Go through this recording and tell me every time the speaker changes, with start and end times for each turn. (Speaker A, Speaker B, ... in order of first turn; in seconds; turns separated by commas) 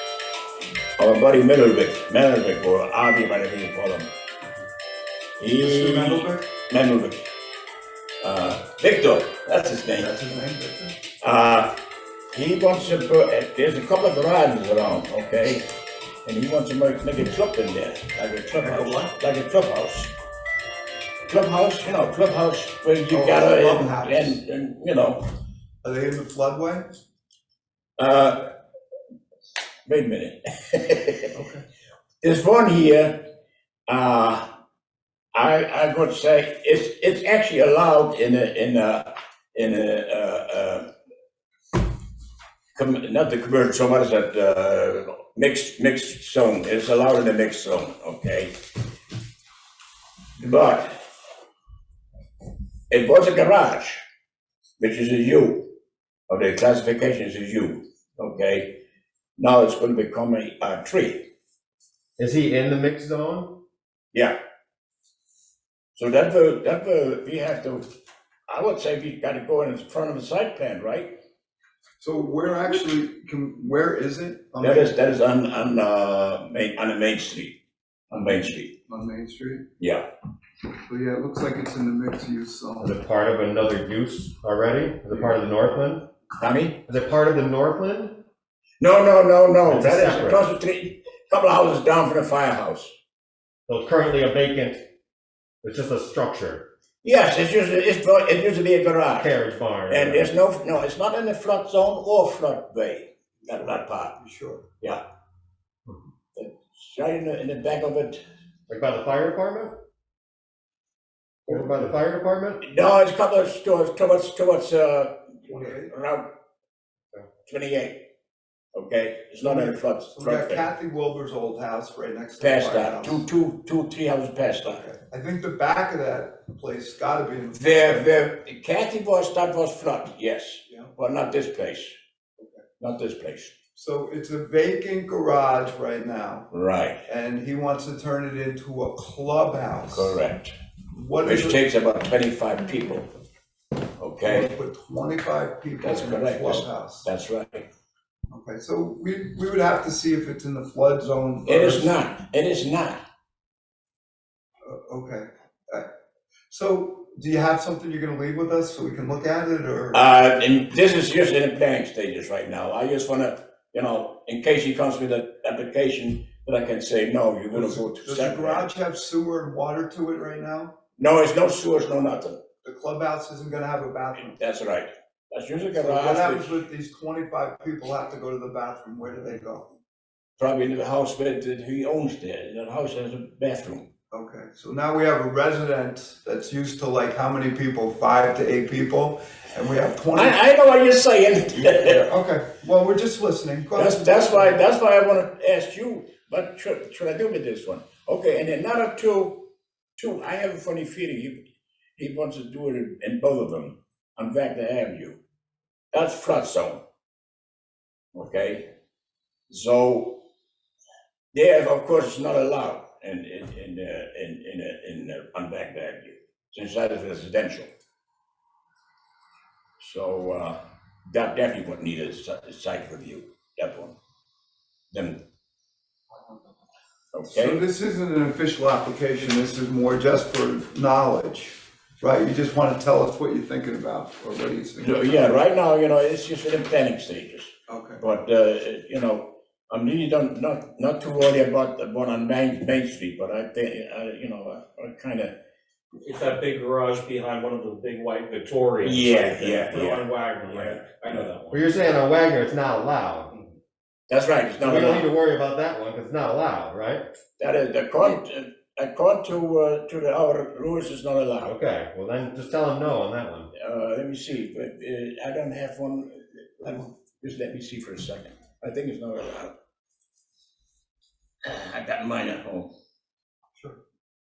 Speaker A: 1.0-4.1, Speaker A: 5.4-7.3, Speaker B: 5.6-6.5, Speaker A: 8.2-10.1, Speaker B: 9.9-11.0, Speaker A: 11.2-11.8, Speaker A: 12.3-15.7, Speaker A: 16.2-20.1, Speaker B: 18.5-19.1, Speaker A: 21.3-25.2, Speaker B: 23.1-24.4, Speaker B: 25.8-26.9, Speaker A: 28.0-28.5, Speaker A: 29.9-31.3, Speaker B: 31.3-31.6, Speaker A: 32.2-33.3, Speaker A: 33.9-34.5, Speaker A: 35.3-40.9, Speaker A: 42.7-48.5, Speaker A: 50.4-50.9, Speaker A: 52.9-54.0, Speaker A: 54.8-55.7, Speaker A: 56.3-58.8, Speaker A: 59.4-61.3, Speaker C: 62.2-63.6, Speaker A: 66.0-67.8, Speaker A: 68.5-71.1, Speaker B: 72.0-75.0, Speaker A: 74.6-77.6, Speaker A: 78.1-78.7, Speaker B: 78.1-79.7, Speaker A: 79.8-80.0, Speaker B: 80.8-82.9, Speaker C: 82.8-86.1, Speaker A: 86.4-86.8, Speaker C: 86.9-88.2, Speaker A: 88.8-92.9, Speaker C: 89.6-90.5, Speaker C: 93.7-94.8, Speaker C: 95.6-96.7, Speaker A: 97.0-99.3, Speaker C: 99.2-100.3, Speaker A: 99.9-104.2, Speaker B: 103.5-104.6, Speaker A: 106.3-108.2, Speaker C: 108.7-109.8, Speaker C: 111.5-112.6, Speaker A: 112.6-116.3, Speaker B: 115.5-115.9, Speaker A: 117.5-118.0, Speaker A: 118.7-120.7, Speaker B: 119.4-123.2, Speaker A: 122.4-124.8, Speaker B: 124.6-128.1, Speaker A: 127.5-131.9, Speaker B: 130.7-130.9, Speaker B: 132.4-132.6, Speaker A: 132.8-133.5, Speaker B: 133.7-136.5, Speaker A: 136.5-137.0, Speaker B: 137.0-140.2, Speaker A: 139.9-140.5, Speaker B: 140.9-141.6, Speaker A: 141.2-143.1, Speaker A: 144.0-144.5, Speaker B: 144.2-147.1, Speaker A: 145.8-147.7, Speaker B: 148.3-151.9, Speaker A: 151.4-153.0, Speaker B: 154.6-155.9, Speaker B: 156.5-160.1, Speaker A: 159.9-168.7, Speaker B: 167.5-170.8, Speaker A: 171.0-172.4, Speaker B: 172.6-174.4, Speaker A: 174.3-176.7, Speaker B: 175.7-179.7, Speaker A: 180.4-183.9, Speaker B: 184.1-190.4, Speaker A: 190.1-192.0, Speaker B: 191.5-194.6, Speaker A: 193.7-201.4, Speaker A: 202.0-205.2, Speaker A: 205.9-206.8, Speaker A: 208.1-208.7, Speaker A: 209.5-210.2, Speaker A: 211.3-217.7, Speaker A: 219.8-223.9, Speaker A: 224.9-225.2, Speaker A: 227.1-227.6, Speaker B: 227.3-235.4, Speaker A: 234.8-237.5, Speaker B: 237.7-238.0, Speaker A: 238.0-245.3, Speaker D: 246.0-251.6, Speaker A: 248.8-250.8, Speaker C: 251.5-253.3, Speaker A: 254.1-255.1, Speaker C: 254.6-257.0, Speaker A: 257.4-261.5, Speaker C: 261.4-263.5, Speaker A: 263.5-269.5, Speaker A: 271.4-272.7